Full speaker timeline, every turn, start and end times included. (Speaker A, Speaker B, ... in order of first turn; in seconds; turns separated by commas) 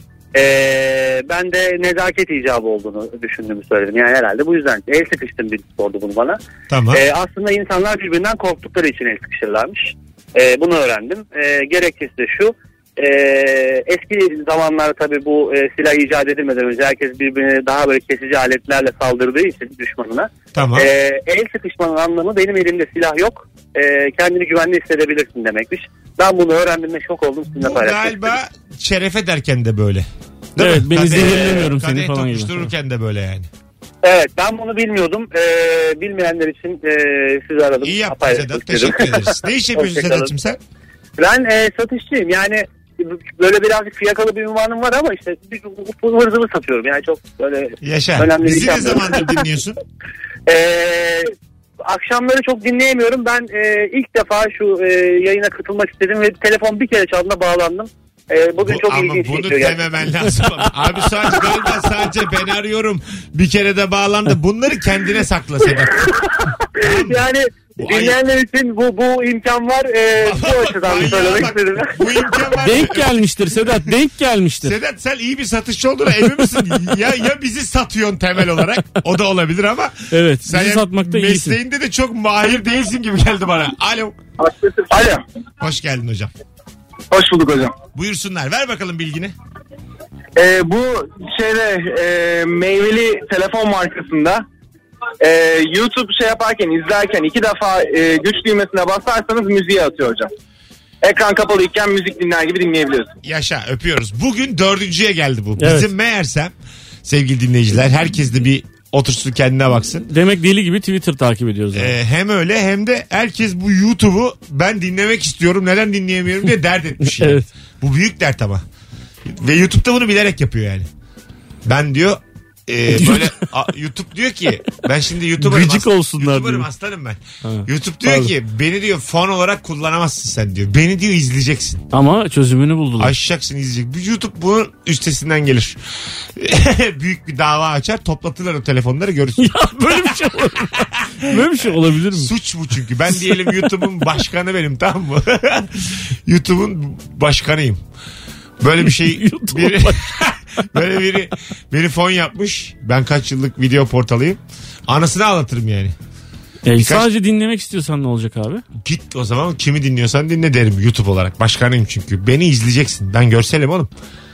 Speaker A: 0.3-6.4, Speaker B: 6.7-7.0, Speaker A: 6.9-28.3, Speaker B: 20.5-20.9, Speaker B: 27.6-33.5, Speaker C: 30.6-32.7, Speaker A: 31.1-31.6, Speaker A: 34.0-40.3, Speaker B: 37.8-40.6, Speaker A: 41.2-49.4, Speaker B: 47.8-49.8, Speaker A: 50.5-51.3, Speaker A: 51.9-59.8, Speaker B: 58.6-66.1, Speaker A: 66.2-72.5, Speaker B: 66.8-67.2, Speaker B: 67.8-68.2, Speaker B: 70.2-73.9, Speaker C: 72.6-74.8, Speaker B: 74.6-84.2, Speaker C: 80.1-81.6, Speaker D: 84.9-85.2, Speaker B: 85.6-86.3, Speaker D: 87.1-87.7, Speaker B: 87.9-89.3, Speaker D: 90.4-94.4, Speaker D: 95.2-100.3, Speaker D: 101.0-103.1, Speaker B: 103.2-110.0, Speaker C: 105.6-105.9, Speaker C: 110.1-111.9, Speaker B: 111.7-118.6, Speaker C: 117.1-117.5, Speaker B: 119.3-120.9, Speaker B: 121.6-131.8, Speaker C: 122.9-123.3, Speaker C: 125.4-126.7, Speaker C: 127.4-128.3, Speaker C: 131.9-133.1, Speaker B: 133.0-135.8, Speaker B: 136.3-140.3, Speaker C: 139.4-142.3, Speaker B: 140.8-147.8, Speaker C: 143.3-143.6, Speaker B: 148.6-155.9, Speaker C: 148.8-150.0, Speaker C: 156.6-158.6, Speaker B: 156.8-157.1, Speaker B: 158.8-163.9